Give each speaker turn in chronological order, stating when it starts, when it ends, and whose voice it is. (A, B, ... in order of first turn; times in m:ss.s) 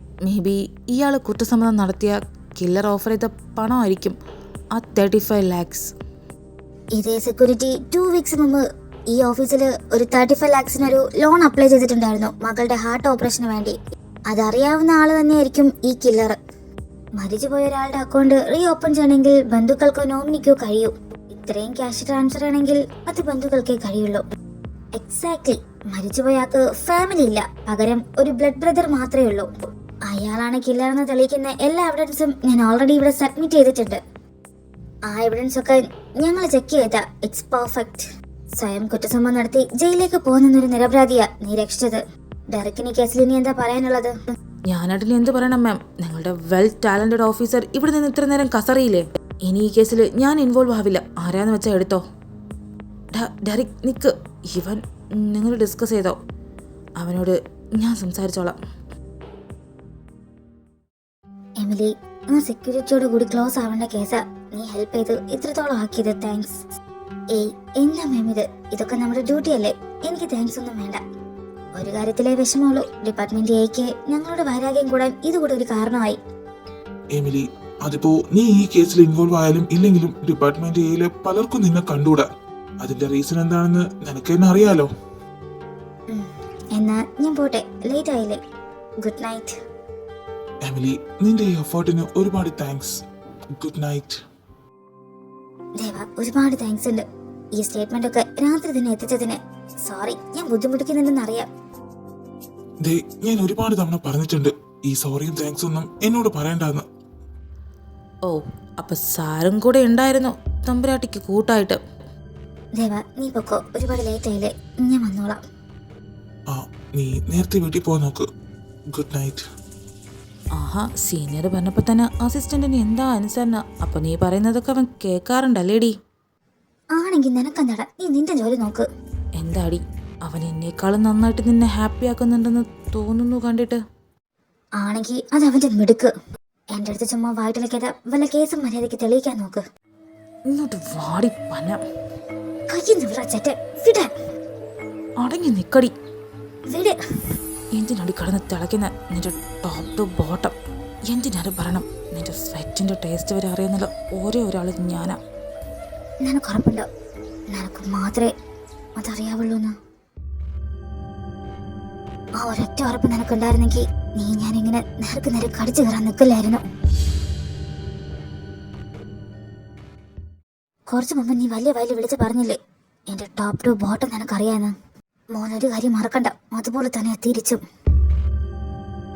0:00.2-0:04.2 A
0:04.7-0:05.9 A
0:07.0-0:13.8 B
0:14.3-0:16.4 B
0:17.2-0:24.2 B
0:25.0-0:29.5 B
0:30.1-0:34.0 B
0:35.1-0:44.2 B
0:44.7-0:52.0 A
0:53.1-0:56.2 A
0:57.0-0:58.6 A
1:01.6-1:06.6 B
1:07.3-1:11.0 B
1:11.8-1:16.2 B
1:17.1-1:22.3 C
1:22.8-1:24.9 C
1:26.1-1:28.4 B
1:29.0-1:29.6 B
1:30.6-1:33.0 C
1:33.6-1:34.2 C
1:35.8-1:37.0 B
1:37.6-1:41.5 B
1:42.8-1:46.9 C
1:48.2-1:51.8 A
1:52.8-1:55.4 B
1:56.5-1:58.2 C
1:58.9-1:59.4 C
2:00.6-2:06.0 A
2:06.9-2:08.9 B
2:09.4-2:13.8 A
2:14.8-2:16.1 B
2:16.7-2:19.6 B
2:20.5-2:21.8 A
2:22.7-2:24.1 B
2:25.2-2:25.9 A
2:26.7-2:27.0 B
2:27.7-2:30.6 A
2:31.1-2:35.2 A
2:36.2-2:36.9 B
2:37.5-2:38.3 B
2:39.0-2:39.8 B
2:42.4-2:46.6 B
2:50.9-2:52.6 B
2:53.1-2:54.7 B
2:55.3-2:57.6 B